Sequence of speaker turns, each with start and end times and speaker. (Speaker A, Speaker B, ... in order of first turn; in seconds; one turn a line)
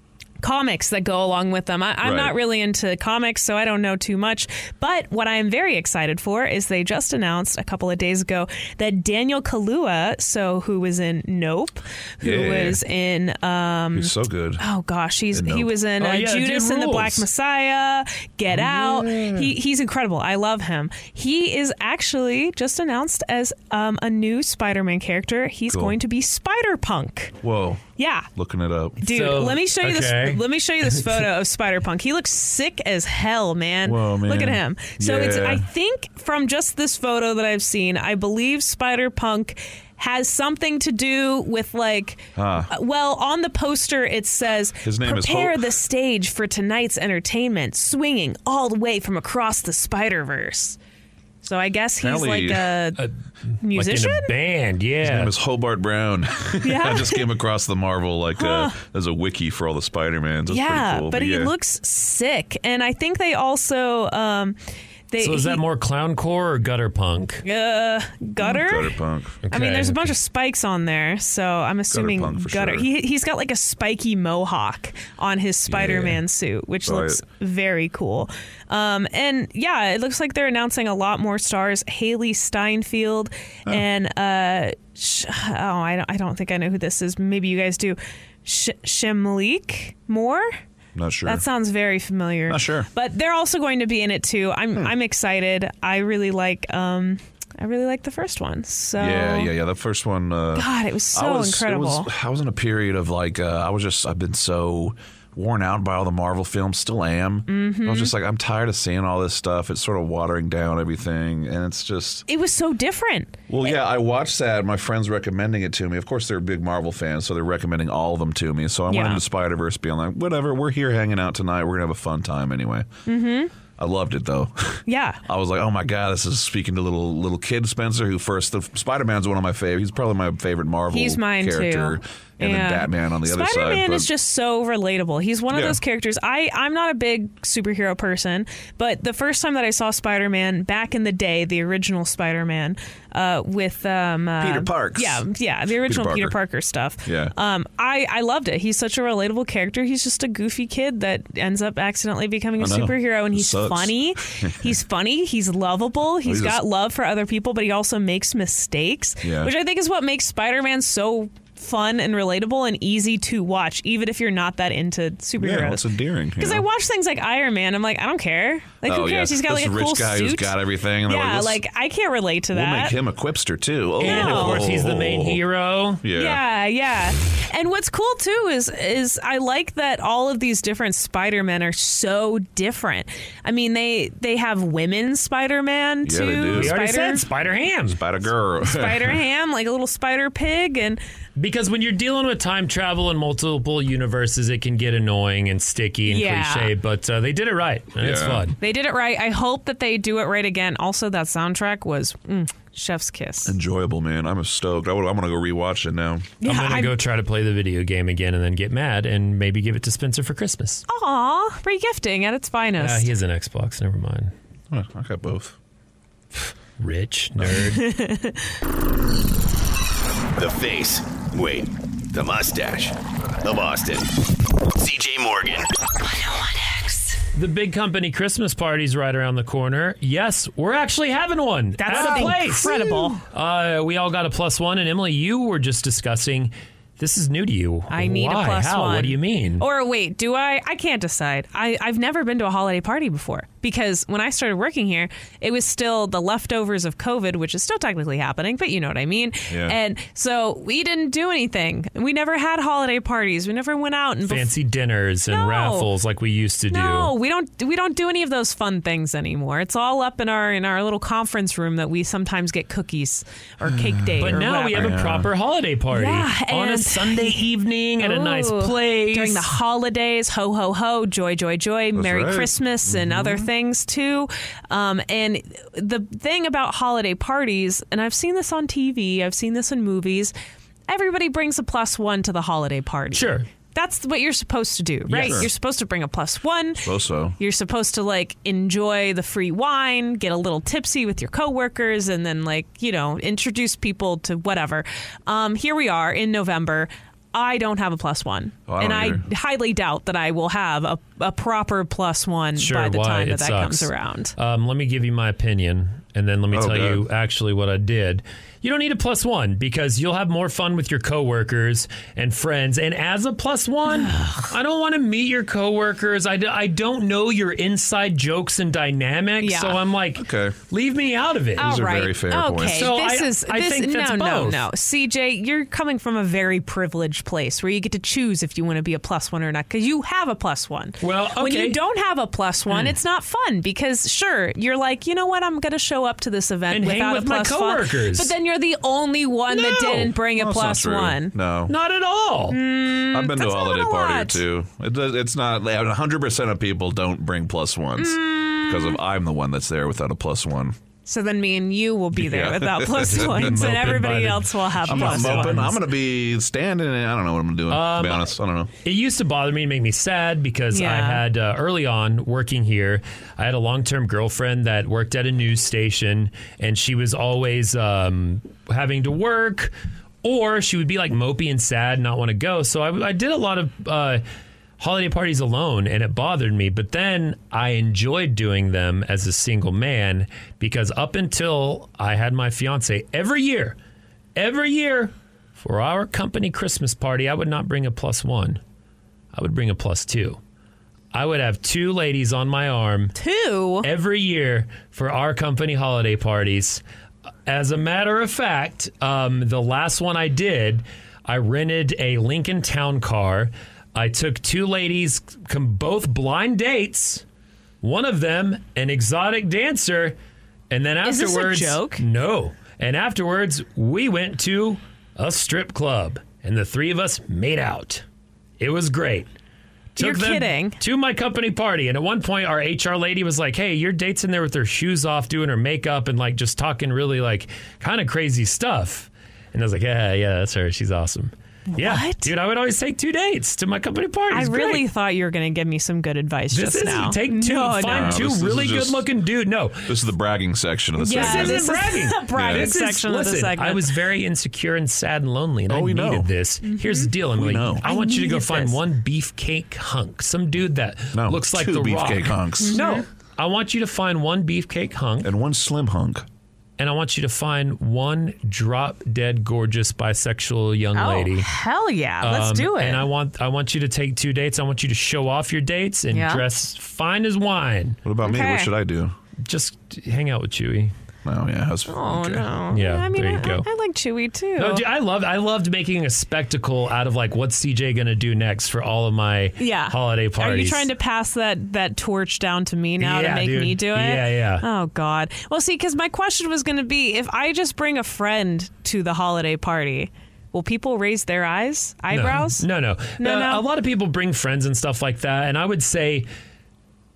Speaker A: 0.4-27.4
Speaker B: 2.0-2.4
Speaker B: 12.2-12.8
Speaker B: 13.9-14.6
Speaker B: 15.3-15.7
Speaker C: 16.0-17.3
Speaker B: 25.7-26.0
Speaker B: 27.4-29.0
Speaker A: 28.0-28.3
Speaker A: 29.0-50.8
Speaker C: 29.0-31.0
Speaker B: 33.9-35.7
Speaker B: 42.4-42.7
Speaker B: 44.8-45.7
Speaker A: 51.4-53.0
Speaker B: 52.0-52.7
Speaker A: 53.6-54.3
Speaker C: 53.7-55.3
Speaker B: 55.0-61.5
Speaker A: 56.6-57.3
Speaker A: 58.4-58.8
Speaker A: 60.5-64.6
Speaker A: 65.1-65.6
Speaker C: 65.2-67.4
Speaker A: 67.5-69.0
Speaker B: 68.4-69.4
Speaker C: 69.5-70.2
Speaker A: 69.5-90.5
Speaker B: 71.9-72.9
Speaker B: 75.7-76.2
Speaker B: 76.8-77.2
Speaker B: 91.0-91.4
Speaker A: 91.2-99.5
Speaker B: 92.5-92.9
Speaker B: 99.0-112.2
Speaker A: 100.5-102.1
Speaker A: 107.5-108.1
Speaker A: 112.3-113.8
Speaker B: 113.5-122.9
Speaker A: 118.9-119.2
Speaker A: 123.1-123.5
Speaker B: 123.8-134.1
Speaker A: 124.9-125.2
Speaker A: 130.9-173.0
Speaker B: 135.5-135.8
Speaker B: 144.4-145.3
Speaker B: 145.8-146.4
Speaker B: 147.1-147.3
Speaker B: 152.6-154.8
Speaker B: 156.2-156.6
Speaker B: 159.2-159.5
Speaker B: 165.4-166.7
Speaker B: 168.8-171.6
Speaker B: 172.5-175.4
Speaker C: 174.0-176.0
Speaker A: 174.0-174.7
Speaker B: 176.0-176.4
Speaker A: 176.1-187.3
Speaker B: 186.0-186.8
Speaker C: 186.5-188.0
Speaker B: 187.9-189.2
Speaker A: 188.6-191.0
Speaker C: 191.4-198.6
Speaker A: 196.1-196.7
Speaker B: 198.0-198.5
Speaker A: 198.6-203.6
Speaker B: 203.4-206.3
Speaker A: 206.4-207.0
Speaker C: 206.4-210.8
Speaker A: 210.9-213.1
Speaker C: 212.8-214.3
Speaker B: 214.7-215.6
Speaker C: 216.8-217.8
Speaker A: 217.5-218.5
Speaker D: 220.3-224.1
Speaker D: 224.8-225.7
Speaker C: 227.3-239.7
Speaker A: 231.8-233.2
Speaker A: 237.9-254.6
Speaker B: 249.5-249.8
Speaker C: 254.2-257.1
Speaker A: 255.3-255.9
Speaker A: 256.7-264.9
Speaker B: 263.6-265.3
Speaker C: 264.2-269.5
Speaker A: 265.9-267.4
Speaker A: 268.0-280.3
Speaker B: 271.9-273.4
Speaker A: 280.9-304.3
Speaker C: 283.1-283.5
Speaker C: 285.1-285.5
Speaker B: 285.2-285.5
Speaker B: 286.8-287.4
Speaker B: 298.7-299.2
Speaker C: 302.6-321.7
Speaker B: 306.5-307.1
Speaker A: 313.9-314.4
Speaker A: 319.4-319.8
Speaker B: 320.1-320.6
Speaker A: 321.6-341.3
Speaker B: 321.6-322.9
Speaker C: 322.7-324.7
Speaker C: 331.0-331.8
Speaker C: 332.7-333.0
Speaker C: 336.7-338.3
Speaker C: 339.5-340.1
Speaker B: 339.9-341.7
Speaker C: 341.7-342.6
Speaker A: 342.5-344.4
Speaker B: 343.1-350.8
Speaker A: 348.0-349.0
Speaker A: 351.1-355.6
Speaker B: 352.1-353.9
Speaker C: 353.0-355.8
Speaker B: 354.9-358.7
Speaker C: 357.7-369.7
Speaker A: 360.7-361.2
Speaker C: 370.2-374.2
Speaker C: 374.8-383.8
Speaker C: 384.4-388.6
Speaker C: 389.3-390.4
Speaker C: 391.1-393.1
Speaker A: 393.2-393.9
Speaker C: 393.8-396.8
Speaker C: 397.5-407.2
Speaker C: 407.8-410.2
Speaker C: 410.7-418.0
Speaker A: 411.0-412.0
Speaker C: 418.6-419.3
Speaker A: 420.0-420.8
Speaker C: 420.0-434.9
Speaker A: 431.8-432.3
Speaker A: 434.3-438.2
Speaker C: 436.5-439.9
Speaker B: 437.9-439.1
Speaker B: 439.9-441.6
Speaker A: 441.0-444.0
Speaker C: 441.1-455.3
Speaker B: 442.3-442.7
Speaker B: 445.7-446.3
Speaker A: 446.6-447.1
Speaker B: 447.4-447.9
Speaker A: 447.8-448.8
Speaker B: 451.1-452.8
Speaker A: 452.6-453.1
Speaker B: 455.2-456.2
Speaker C: 456.8-461.5
Speaker A: 460.9-463.1
Speaker C: 462.2-468.0
Speaker A: 466.1-466.4
Speaker B: 468.1-469.1
Speaker A: 468.2-468.7
Speaker C: 469.4-470.9
Speaker B: 471.2-472.5
Speaker A: 471.9-474.9
Speaker C: 472.7-473.7
Speaker C: 474.6-480.9
Speaker A: 479.6-493.6
Speaker C: 483.0-484.7
Speaker C: 492.1-496.3